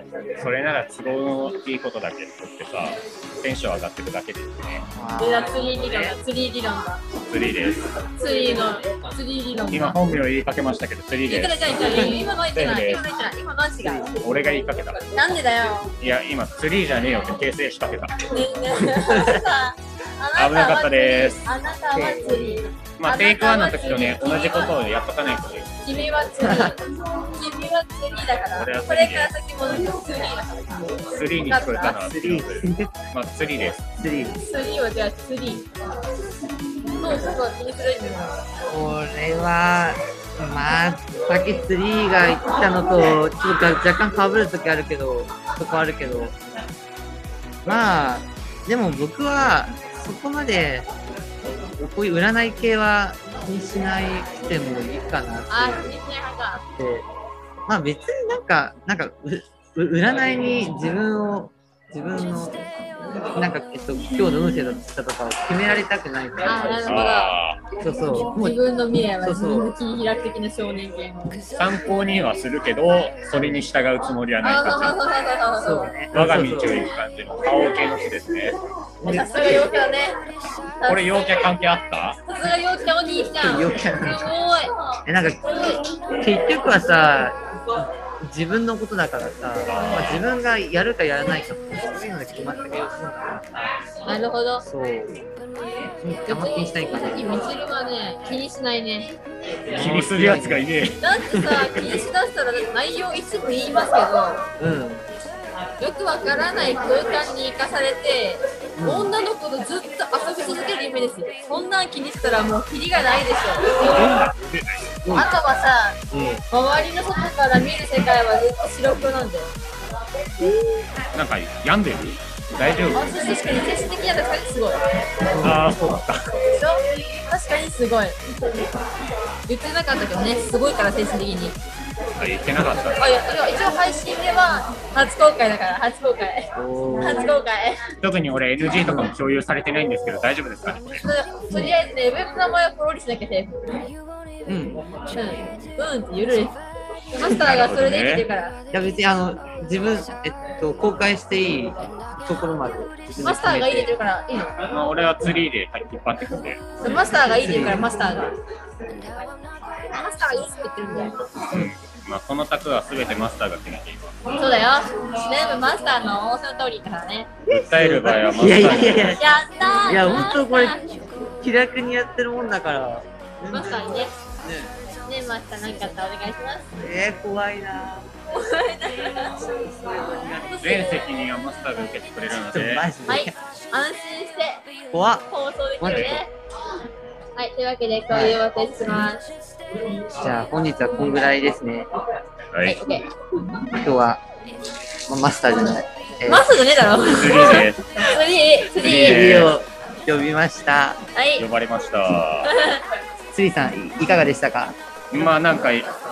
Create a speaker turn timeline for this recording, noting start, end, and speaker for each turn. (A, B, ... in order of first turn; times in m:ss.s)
0:00.4-0:04.8 A
0:04.9-0:05.6 B
0:05.2-0:07.0 C
0:07.3-0:07.9 A
0:08.1-0:10.0 C
0:09.7-0:13.0 A
0:11.3-0:14.1 C
0:14.2-0:15.0 A
0:15.1-0:15.9 C
0:16.0-0:18.2 A
0:18.3-0:24.7 C
0:18.8-0:19.4 B
0:20.4-0:21.4 A
0:21.9-0:22.4 B
0:23.0-0:25.7 A
0:25.8-0:30.8 C
0:26.4-0:26.7 B
0:28.6-0:29.3 A
0:31.1-0:33.8 A
0:31.4-0:32.0 C
0:32.1-0:32.9 B
0:34.0-0:34.4 B
0:34.4-0:35.6 C
0:37.0-0:38.4 C
0:38.7-0:46.4 B
0:47.6-0:50.9 B
0:51.8-0:56.0 B
0:55.5-0:56.6 C
0:56.8-0:57.0 B
0:57.7-1:02.6 B
1:03.3-1:07.0 B
1:06.4-1:07.4 C
1:06.9-1:07.6 A
1:07.8-1:08.6 B
1:08.3-1:11.4 C
1:09.2-1:09.7 B
1:11.6-1:15.0 A
1:14.4-1:15.9 C
1:15.6-1:16.8 B
1:16.1-1:18.6 A
1:19.0-1:19.7 B
1:19.0-1:20.1 C
1:20.8-1:21.2 C
1:20.8-1:22.2 A
1:22.2-1:24.7 C
1:23.4-1:24.3 B
1:25.0-1:25.7 B
1:26.2-1:27.4 B
1:28.2-1:33.7 B
1:29.7-1:30.2 A
1:34.1-1:34.6 C
1:34.6-1:35.2 B
1:36.0-1:37.3 B
1:36.3-1:39.1 C
1:39.7-1:40.7 B
1:39.7-1:41.0 A
1:41.0-1:44.4 C
1:44.6-1:45.0 B
1:45.8-1:53.9 C
1:48.8-1:49.1 B
1:53.8-1:55.0 A
1:55.1-1:56.0 C
1:56.1-1:56.4 B
1:56.5-1:59.5 C
2:01.1-2:03.1 A
2:02.9-2:04.8 C
2:05.3-2:05.7 B
2:05.4-2:06.3 A
2:06.5-2:08.2 C
2:09.5-2:11.6 C
2:12.2-2:13.1 A
2:13.0-2:17.9 C
2:16.6-2:17.3 B
2:18.0-2:21.0 A
2:18.8-2:19.1 B
2:20.9-2:23.8 C
2:21.5-2:21.7 B
2:24.5-2:24.8 B
2:25.1-2:26.6 C
2:27.1-2:28.5 C
2:27.2-2:28.3 A
2:28.7-2:33.9 B
2:33.2-2:34.5 C
2:34.7-2:36.6 A
2:36.8-2:37.9 B
2:36.8-2:38.3 C
2:39.9-2:41.1 C
2:41.5-2:44.2 A
2:44.3-2:47.3 C
2:47.5-2:49.4 A
2:47.5-2:49.2 B
2:49.2-2:50.8 C
2:49.9-2:50.8 B
2:51.4-2:54.7 B
2:53.5-2:54.1 C
2:55.0-2:56.7 C
2:56.8-2:58.1 B
2:58.3-2:59.4 C
2:59.4-3:00.6 B
3:00.5-3:01.1 C
3:00.6-3:02.8 A
3:02.3-3:03.3 B
3:03.1-3:04.6 C
3:04.9-3:05.2 B
3:05.3-3:06.3 C
3:05.8-3:06.2 B
3:05.8-3:06.2 A
3:07.4-3:09.2 C
3:08.1-3:08.4 B
3:10.2-3:11.9 B
3:12.5-3:12.8 A
3:12.6-3:13.1 C
3:13.8-3:14.2 B
3:15.1-3:16.5 B
3:16.3-3:19.3 C
3:17.1-3:17.8 A
3:18.8-3:19.5 A
3:18.8-3:21.0 B
3:21.1-3:21.4 C
3:21.4-3:22.5 A
3:22.4-3:22.8 C
3:23.3-3:24.8 B
3:25.1-3:25.9 A